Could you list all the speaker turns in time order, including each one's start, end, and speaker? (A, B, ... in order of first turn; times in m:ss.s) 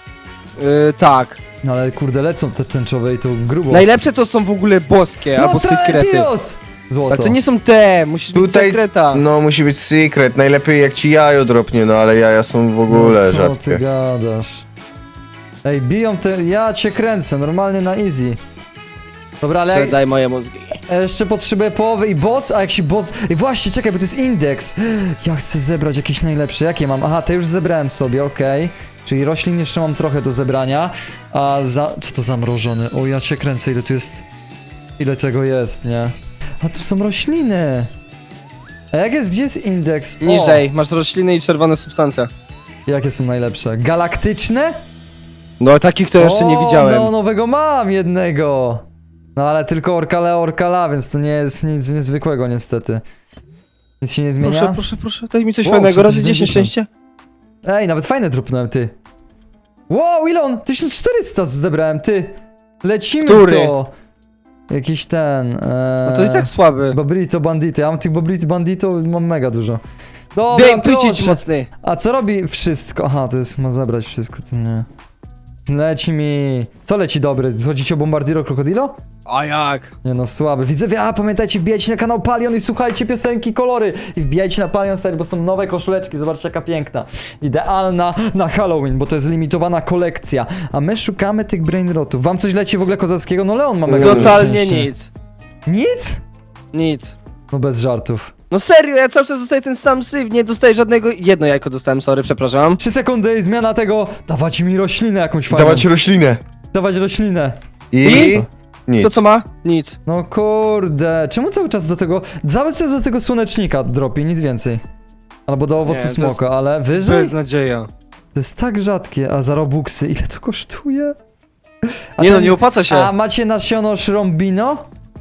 0:00.6-0:01.4 A
0:01.6-0:03.8 B
0:03.7-0:06.3 A
0:05.3-0:07.4 B
0:07.1-0:09.2 A
0:08.3-0:13.8 C
0:12.9-0:14.6 B
0:15.6-0:18.4 B
0:19.4-0:20.0 B
0:19.7-0:20.8 A
0:20.9-0:34.2 B
0:35.0-0:37.9 B
0:38.9-0:40.6 B
0:40.2-0:42.3 A
0:42.9-0:44.8 B
0:45.6-0:47.1 A
0:46.2-0:48.8 B
0:49.4-0:53.0 B
0:54.0-0:54.8 B
0:54.4-0:56.9 A
0:55.6-0:56.7 B
0:57.6-0:58.9 B
0:59.9-1:03.9 B
1:03.2-1:03.7 A
1:04.7-1:09.8 B
1:06.0-1:07.0 A
1:10.3-1:14.9 B
1:10.5-1:11.7 A
1:15.7-1:18.9 B
1:19.3-1:19.9 A
1:20.0-1:34.9 B
1:33.8-1:34.5 C
1:34.0-1:35.1 A
1:35.6-1:36.2 B
1:36.7-1:37.2 A
1:37.5-1:38.3 B
1:38.5-1:42.8 A
1:42.8-1:45.9 B
1:45.5-1:46.4 C
1:46.7-1:48.5 B
1:47.9-1:49.1 C
1:48.0-1:48.4 A
1:49.0-1:50.0 A
1:50.0-1:54.8 B
1:55.5-1:57.3 B
1:55.8-1:56.4 A
1:57.0-1:57.9 A
1:58.3-2:01.2 B
2:02.2-2:04.8 B
2:02.2-2:03.1 A